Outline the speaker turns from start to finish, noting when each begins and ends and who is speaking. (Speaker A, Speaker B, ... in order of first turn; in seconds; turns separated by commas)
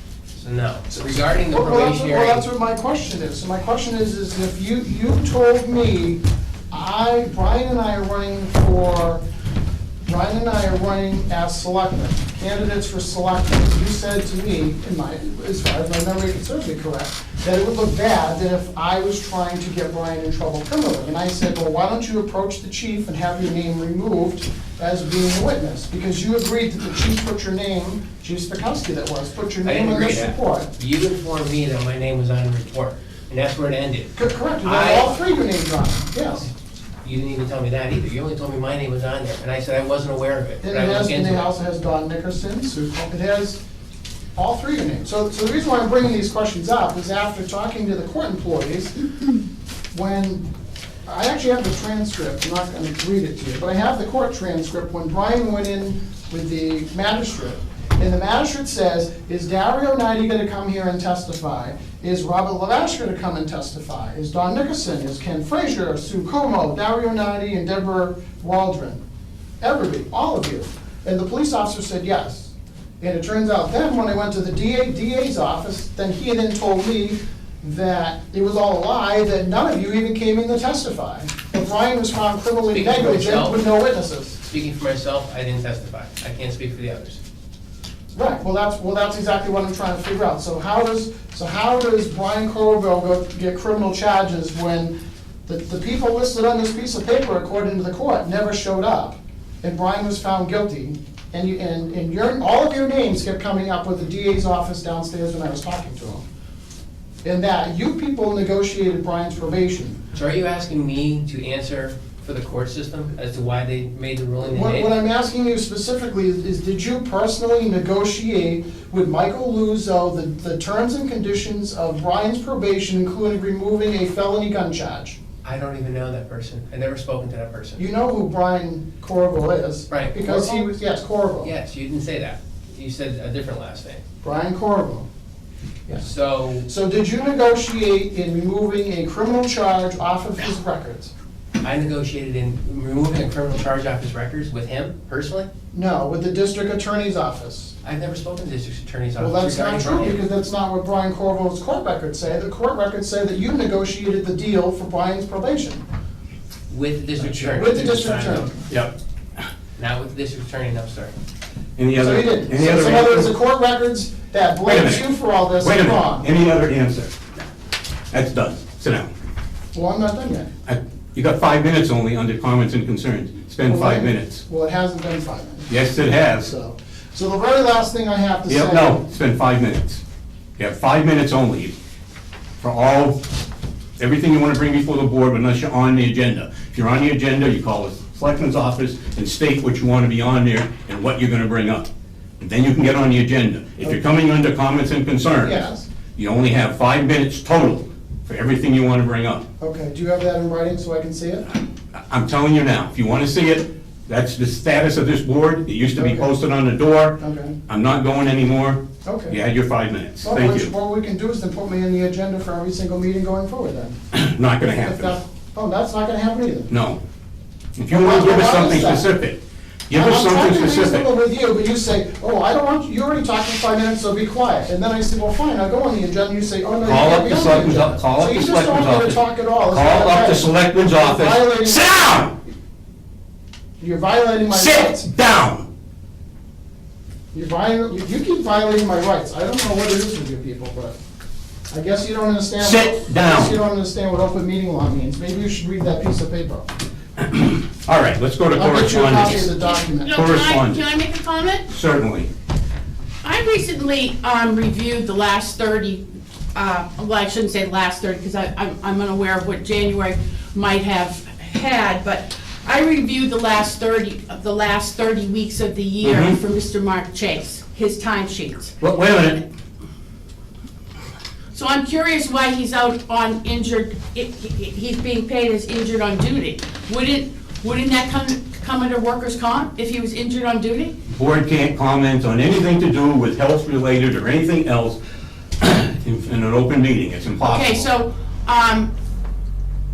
Speaker A: 0.3-2.5, Speaker B: 0.9-9.2, Speaker B: 10.0-30.7, Speaker A: 29.6-35.1, Speaker B: 34.1-36.5, Speaker A: 37.0-41.5, Speaker B: 40.6-43.6, Speaker B: 44.4-48.9, Speaker B: 49.9-50.5, Speaker B: 51.1-69.0, Speaker B: 69.6-84.4, Speaker A: 82.7-83.6, Speaker A: 84.5-87.2, Speaker B: 88.1-95.0, Speaker B: 95.5-106.2, Speaker B: 107.2-110.0, Speaker A: 110.1-114.9, Speaker B: 114.4-125.2, Speaker A: 125.4-127.9, Speaker B: 127.8-131.5, Speaker A: 129.9-130.7, Speaker A: 131.4-134.0, Speaker B: 134.2-135.1, Speaker A: 136.0-136.7, Speaker B: 136.7-141.1, Speaker A: 141.6-145.5, Speaker B: 145.7-147.7, Speaker A: 147.8-150.2, Speaker B: 149.2-155.8, Speaker A: 156.7-158.6, Speaker B: 157.2-158.6, Speaker A: 159.8-161.2, Speaker C: 161.8-163.3, Speaker B: 162.0-166.3, Speaker C: 164.7-165.1, Speaker C: 165.6-167.2, Speaker C: 168.1-169.1, Speaker B: 169.7-170.5, Speaker C: 170.7-174.4, Speaker B: 173.6-175.7, Speaker C: 175.7-176.5, Speaker B: 176.3-179.0, Speaker C: 178.5-180.0, Speaker C: 180.6-181.8, Speaker C: 182.6-183.2, Speaker C: 184.0-191.9, Speaker C: 192.4-199.4, Speaker B: 195.4-195.9, Speaker B: 199.6-201.5, Speaker C: 201.9-210.7, Speaker B: 206.0-206.3, Speaker B: 207.2-207.6, Speaker B: 209.1-209.4, Speaker B: 210.2-214.0, Speaker C: 214.1-215.2, Speaker B: 214.7-216.7, Speaker C: 216.7-217.0, Speaker C: 217.8-221.1, Speaker B: 217.9-219.1, Speaker B: 219.9-231.9, Speaker C: 226.8-232.3, Speaker B: 233.8-235.1, Speaker C: 234.5-235.7, Speaker B: 237.3-241.0, Speaker B: 241.7-246.7, Speaker C: 242.6-243.6, Speaker C: 247.2-249.5, Speaker B: 248.5-250.2, Speaker D: 249.6-251.7, Speaker C: 250.1-250.8, Speaker C: 251.7-252.3, Speaker D: 253.2-269.4, Speaker C: 266.0-266.4, Speaker C: 268.8-269.4, Speaker D: 271.5-281.0, Speaker C: 281.1-285.0, Speaker C: 285.6-287.9, Speaker D: 287.4-288.9